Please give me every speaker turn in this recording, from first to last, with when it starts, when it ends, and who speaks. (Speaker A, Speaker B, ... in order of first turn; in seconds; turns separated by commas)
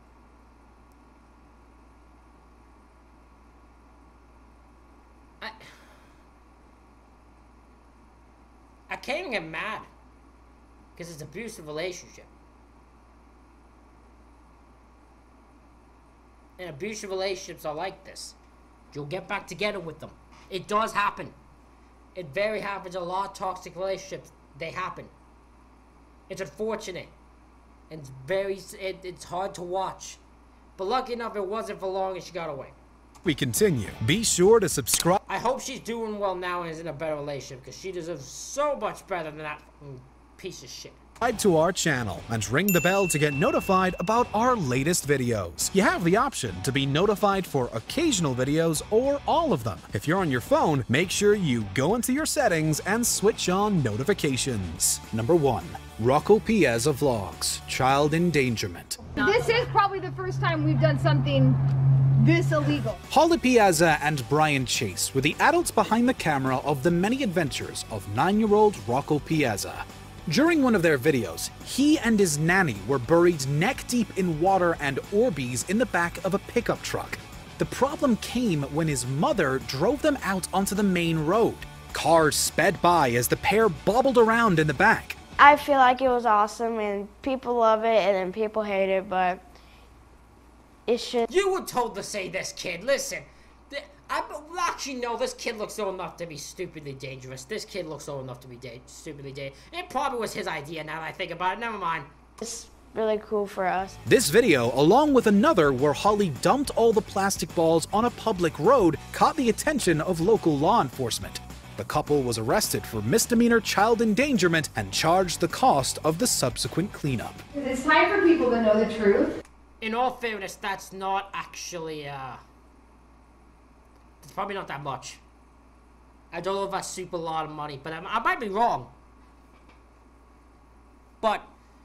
Speaker A: 5.4-5.7, Speaker A: 8.9-9.9, Speaker A: 10.9-12.3, Speaker A: 16.6-18.4, Speaker A: 18.9-21.4, Speaker A: 22.1-25.1, Speaker A: 26.3-27.1, Speaker A: 27.9-30.2, Speaker A: 30.8-32.7, Speaker B: 33.2-35.2, Speaker A: 35.3-41.0, Speaker B: 41.2-59.0, Speaker C: 59.2-61.6, Speaker C: 62.2-63.0, Speaker B: 63.1-85.2, Speaker D: 85.4-89.5, Speaker D: 90.9-91.3, Speaker A: 91.3-102.1, Speaker D: 102.4-104.0, Speaker B: 104.0-117.4, Speaker C: 117.5-119.4, Speaker A: 119.8-122.4, Speaker A: 124.2-125.2, Speaker A: 126.3-128.9, Speaker A: 131.2-131.5